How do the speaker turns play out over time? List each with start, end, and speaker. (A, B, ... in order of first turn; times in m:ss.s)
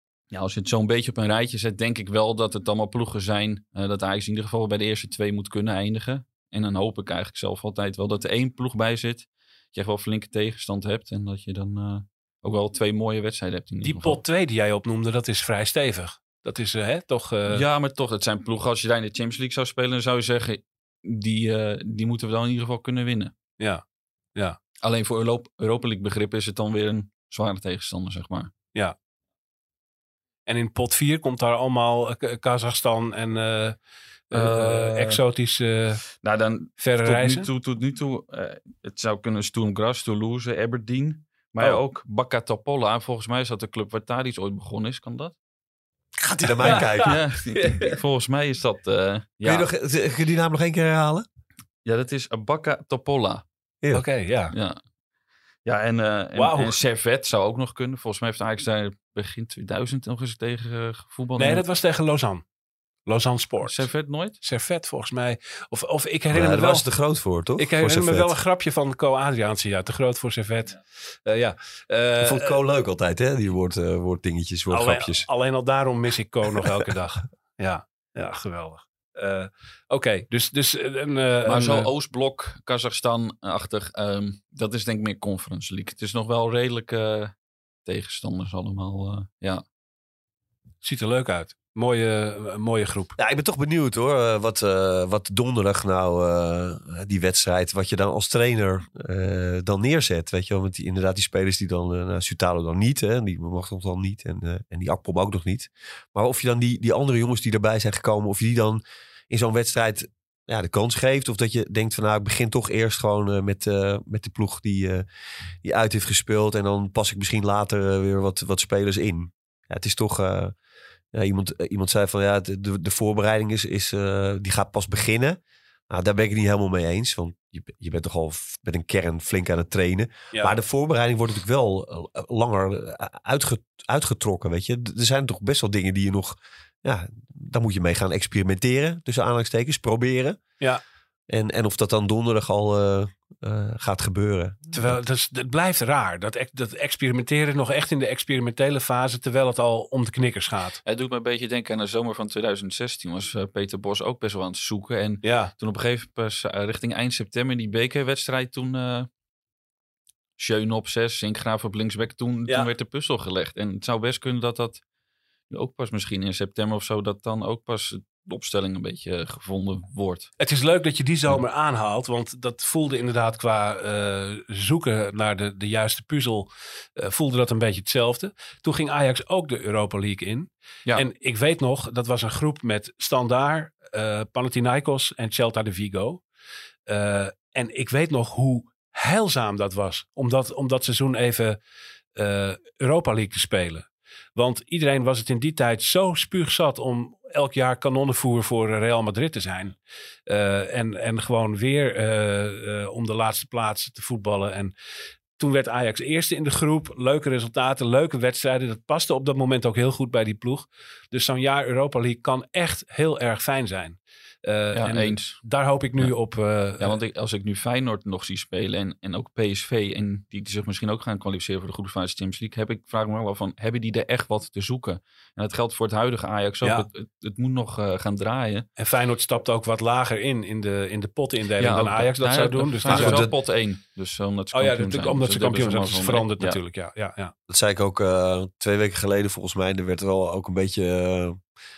0:00.3-0:14.2 A
0:13.8-0:17.6 B
0:17.5-0:23.3 A
0:24.8-0:28.5 A
0:30.5-0:33.8 B
0:34.3-0:36.0 B
0:34.3-0:35.2 A
0:36.2-0:45.4 A
0:36.8-0:37.5 B
0:46.2-0:47.2 C
0:46.6-0:48.0 B
0:46.6-0:49.7 A
0:49.4-0:51.3 C
0:51.8-0:53.4 A
0:53.9-0:54.5 B
0:54.5-0:54.8 A
0:55.6-1:01.6 A
0:56.4-0:56.8 B
1:01.4-1:02.4 B
1:03.1-1:03.9 B
1:03.6-1:04.4 A
1:04.4-1:06.9 B
1:06.3-1:08.4 C
1:07.6-1:12.6 B
1:12.2-1:15.3 C
1:14.7-1:21.9 B
1:21.4-1:27.3 A
1:27.8-1:29.6 A
1:30.8-1:33.2 B
1:33.2-1:55.0 C
1:55.6-2:00.6 C
2:01.1-2:05.4 C
2:05.9-2:20.4 C
2:21.3-2:25.0 C
2:24.7-2:30.8 B
2:30.8-2:39.1 A
2:35.2-2:35.5 B
2:40.4-2:44.8 A
2:45.5-2:50.3 A
2:50.4-3:06.2 B
3:06.9-3:11.6 B
3:12.2-3:19.8 B
3:20.3-3:24.7 B
3:25.4-3:37.0 B
3:34.7-3:35.4 A
3:36.8-3:48.7 A
3:48.8-3:53.3 B
3:51.6-3:56.6 A
3:52.9-3:53.3 C
3:54.5-3:57.3 B
3:57.5-4:01.4 C